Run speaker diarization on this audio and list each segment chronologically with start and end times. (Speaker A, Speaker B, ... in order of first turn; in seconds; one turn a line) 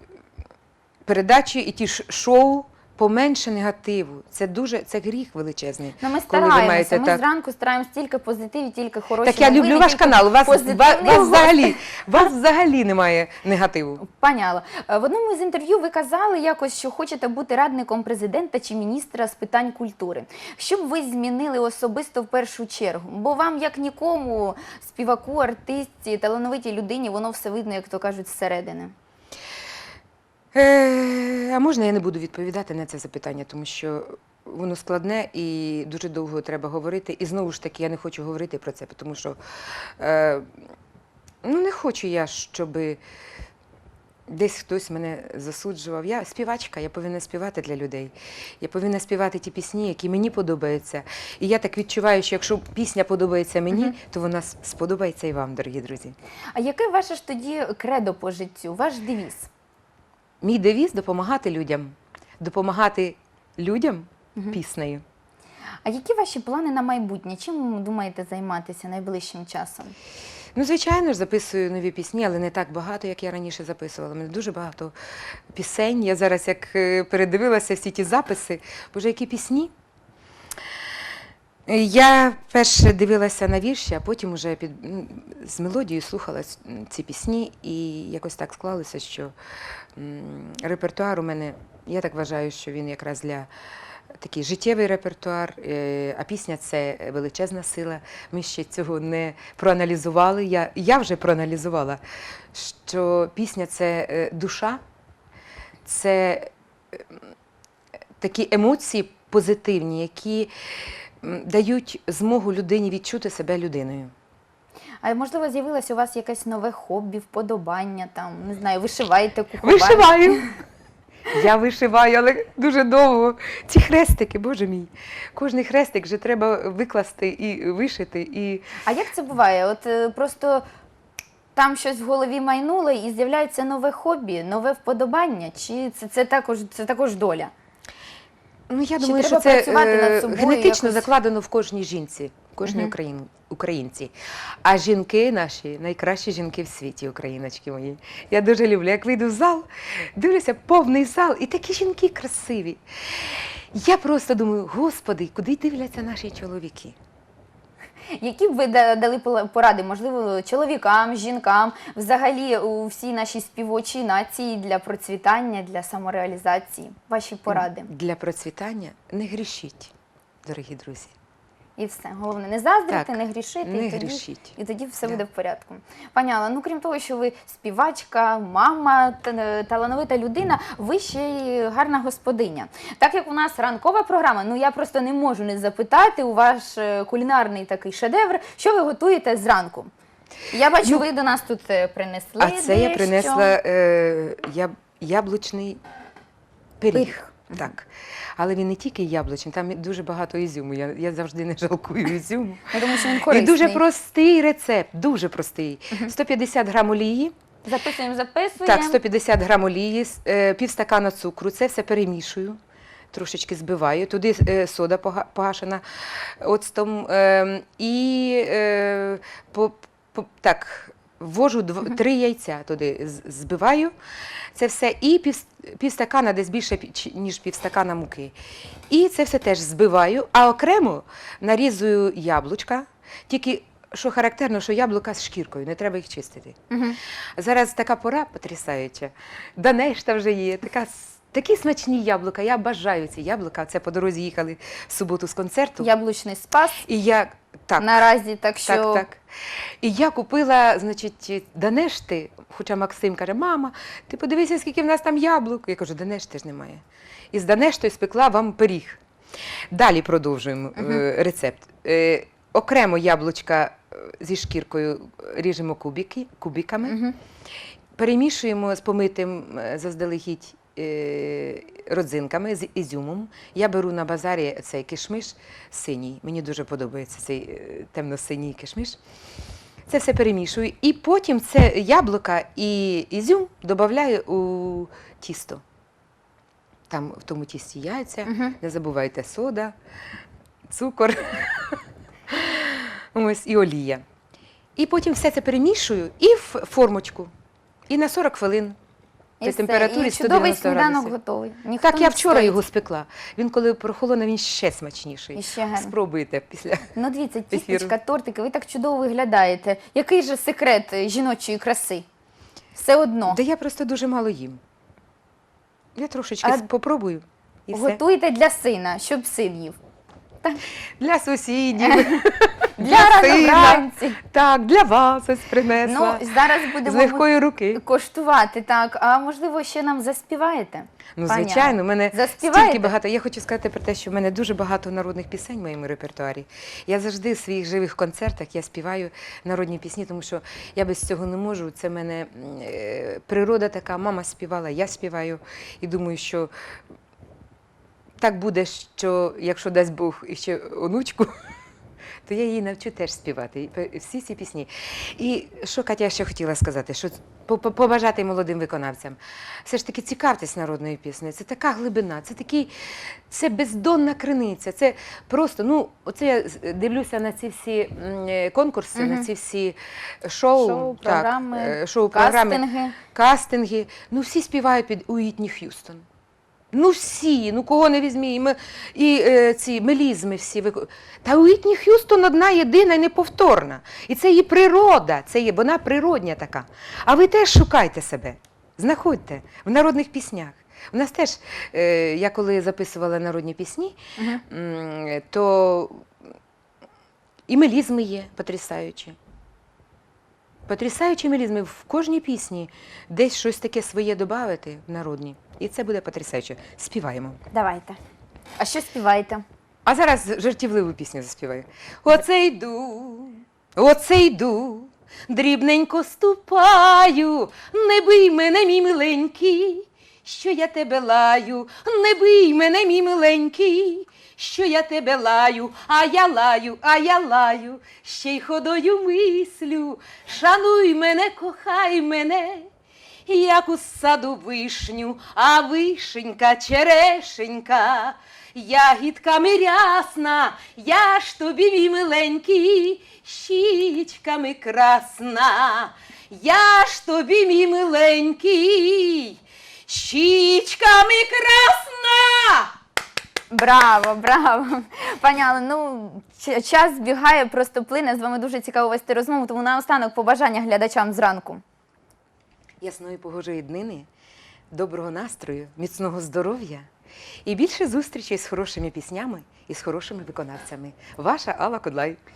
Speaker A: 1.1-7.2
Speaker B: 6.0-11.8
Speaker A: 9.2-14.0
Speaker B: 14.0-28.9
Speaker A: 30.5-40.5
Speaker A: 41.4-43.0
Speaker A: 44.3-56.2
Speaker B: 56.5-59.5
Speaker A: 60.4-65.0
Speaker B: 65.8-70.0
Speaker A: 70.5-75.0
Speaker A: 75.5-79.7
Speaker A: 81.7-89.3
Speaker A: 90.0-93.5
Speaker A: 94.1-102.0
Speaker A: 102.5-104.8
Speaker A: 105.8-107.2
Speaker A: 108.2-110.5
Speaker A: 111.2-114.1
Speaker B: 115.0-120.5
Speaker A: 119.6-120.5
Speaker A: 121.3-128.7
Speaker B: 128.8-130.6
Speaker B: 131.6-137.5
Speaker A: 138.7-144.1
Speaker B: 139.0-141.1
Speaker B: 142.7-142.9
Speaker A: 144.6-157.0
Speaker B: 158.2-167.9
Speaker A: 167.5-169.9
Speaker A: 170.4-171.1
Speaker B: 171.8-189.9
Speaker A: 172.9-175.2
Speaker B: 190.5-193.6
Speaker A: 192.4-195.8
Speaker A: 196.8-207.3
Speaker B: 196.9-197.7
Speaker B: 202.7-203.8
Speaker B: 207.7-209.0
Speaker A: 208.6-212.6
Speaker A: 213.1-223.9
Speaker A: 224.6-228.3
Speaker A: 228.9-236.6
Speaker B: 236.7-237.0
Speaker A: 237.4-245.9
Speaker B: 245.8-246.8
Speaker A: 246.8-248.0
Speaker B: 247.8-249.1
Speaker A: 248.7-249.2
Speaker A: 249.8-259.0
Speaker A: 259.7-267.0
Speaker B: 260.8-261.0
Speaker B: 266.8-267.2
Speaker A: 268.0-279.0
Speaker A: 279.9-285.6
Speaker A: 286.9-289.8
Speaker B: 288.3-288.6
Speaker A: 290.7-294.0
Speaker A: 294.8-297.3
Speaker A: 297.9-298.8
Speaker B: 299.4-302.6
Speaker A: 299.4-301.1
Speaker A: 301.8-306.9
Speaker B: 305.4-305.9
Speaker B: 306.9-312.1
Speaker A: 307.5-308.0
Speaker B: 312.8-313.4
Speaker A: 313.3-314.6
Speaker A: 316.0-318.0
Speaker B: 317.7-319.8
Speaker A: 321.0-327.8
Speaker B: 321.9-322.2
Speaker B: 322.8-324.2
Speaker B: 325.8-332.9
Speaker A: 331.2-346.5
Speaker A: 348.2-351.3
Speaker A: 352.3-376.0
Speaker B: 369.0-369.3
Speaker B: 370.6-373.0
Speaker A: 376.7-396.1
Speaker B: 394.2-394.4
Speaker A: 397.5-399.2
Speaker A: 400.7-407.4
Speaker B: 407.5-408.0
Speaker B: 408.6-409.4
Speaker A: 409.9-432.7
Speaker A: 433.3-452.8
Speaker B: 453.5-461.6
Speaker A: 462.8-464.1
Speaker A: 464.7-466.9
Speaker A: 467.4-472.2